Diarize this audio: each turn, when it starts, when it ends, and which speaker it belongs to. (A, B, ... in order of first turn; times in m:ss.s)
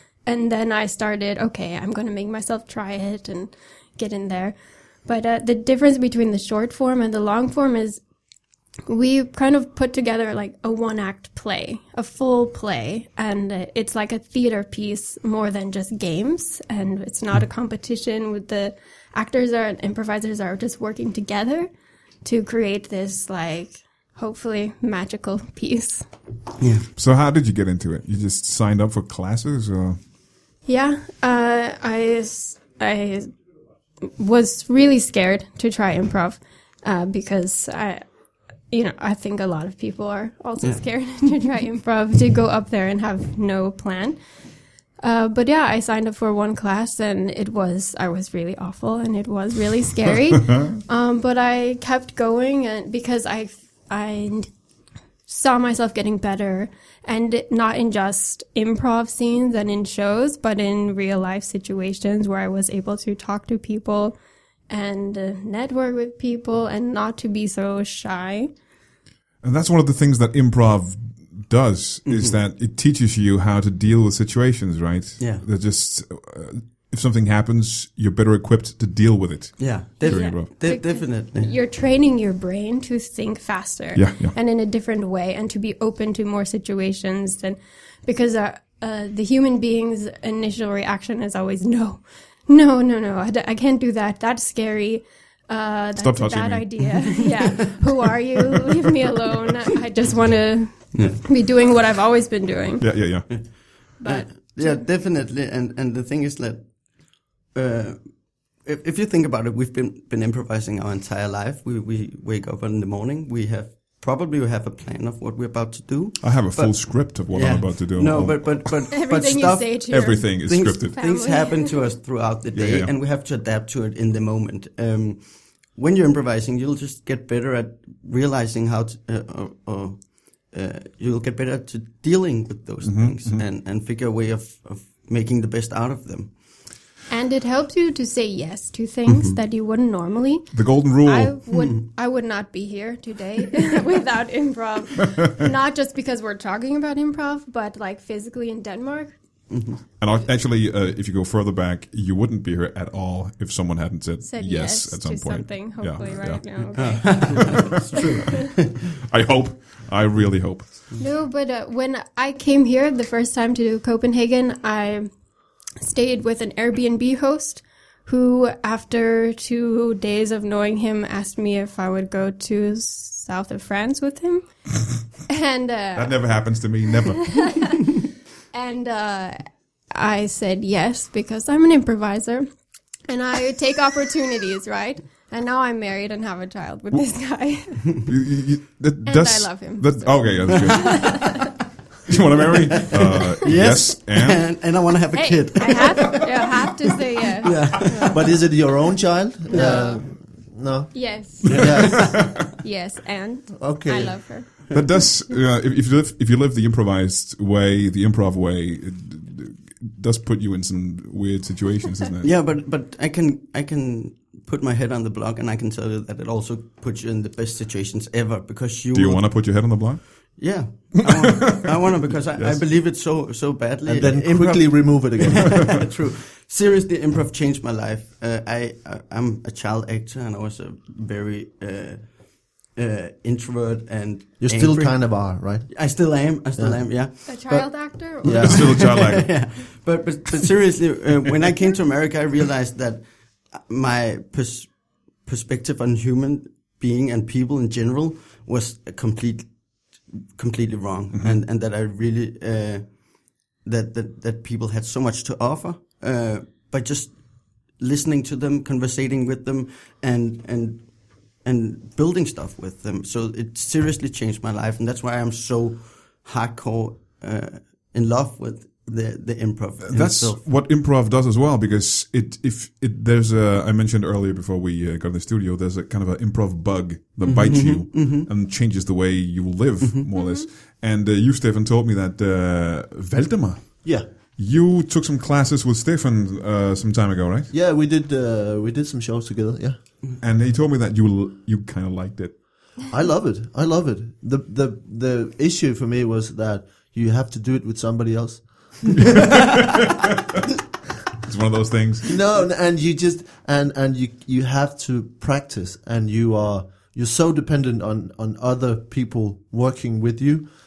0:00.3-0:04.6 A
0:05.1-0:08.0 A
0:08.9-0:21.7 A
0:22.2-0:26.0 A
0:26.6-0:26.8 B
0:27.0-0:30.0 C
0:30.7-0:33.3 A
0:34.1-0:38.0 A
0:38.7-0:44.2 A
0:45.0-0:54.5 A
0:55.3-1:04.2 A
1:04.7-1:08.5 A
1:09.4-1:20.5 C
1:12.0-1:12.4 B
1:15.2-1:15.4 B
1:19.6-1:21.5 B
1:20.0-1:42.9 A
1:24.0-1:24.3 C
1:36.0-1:36.8 C
1:37.3-1:37.8 B
1:40.9-1:41.2 B
1:42.8-1:43.3 C
1:43.3-2:16.3 B
1:44.0-1:44.8 A
1:56.2-1:58.8 C
1:58.9-2:00.3 A
1:59.9-2:01.0 C
2:00.8-2:01.8 A
2:02.5-2:02.9 C
2:12.8-2:13.4 C
2:17.1-2:29.2 A
2:19.1-2:19.4 B
2:20.5-2:21.4 C
2:21.5-2:21.8 B
2:29.5-2:29.8 B
2:30.0-2:38.4 C
2:34.2-2:37.8 A
2:36.8-2:38.8 B
2:39.0-2:40.8 C
2:41.0-2:45.1 A
2:45.8-2:54.7 A
2:55.3-2:56.2 A
2:56.0-2:57.6 C
2:57.2-2:58.0 A
2:58.5-3:02.5 A
3:03.1-3:08.1 A
3:08.0-3:11.5 C
3:09.0-3:11.5 A
3:12.1-3:14.5 C
3:12.5-3:18.3 B
3:15.1-3:18.2 A
3:18.1-3:22.4 D
3:19.5-3:20.0 A
3:19.5-3:19.8 B
3:20.9-3:24.7 A
3:21.4-3:22.4 C
3:21.6-3:21.8 B
3:23.6-3:24.4 D
3:24.7-3:32.3 C
3:32.2-3:39.4 B
3:38.9-3:40.4 C
3:40.4-3:57.4 B
3:41.4-3:42.6 C
3:43.9-3:45.8 D
3:54.4-3:55.7 D
3:56.6-3:57.7 D
3:57.3-3:58.8 A
3:58.2-3:58.7 D
3:58.2-3:59.4 C
3:58.3-4:20.9 B
4:11.1-4:11.4 C
4:21.4-4:30.4 B
4:29.8-4:47.5 C
4:37.2-4:38.3 B
4:40.2-4:40.5 A
4:47.5-4:49.8 D
4:50.2-4:52.3 C
4:52.9-4:58.4 D
4:59.0-5:00.4 C
5:01.2-5:02.1 C
5:02.1-5:10.5 D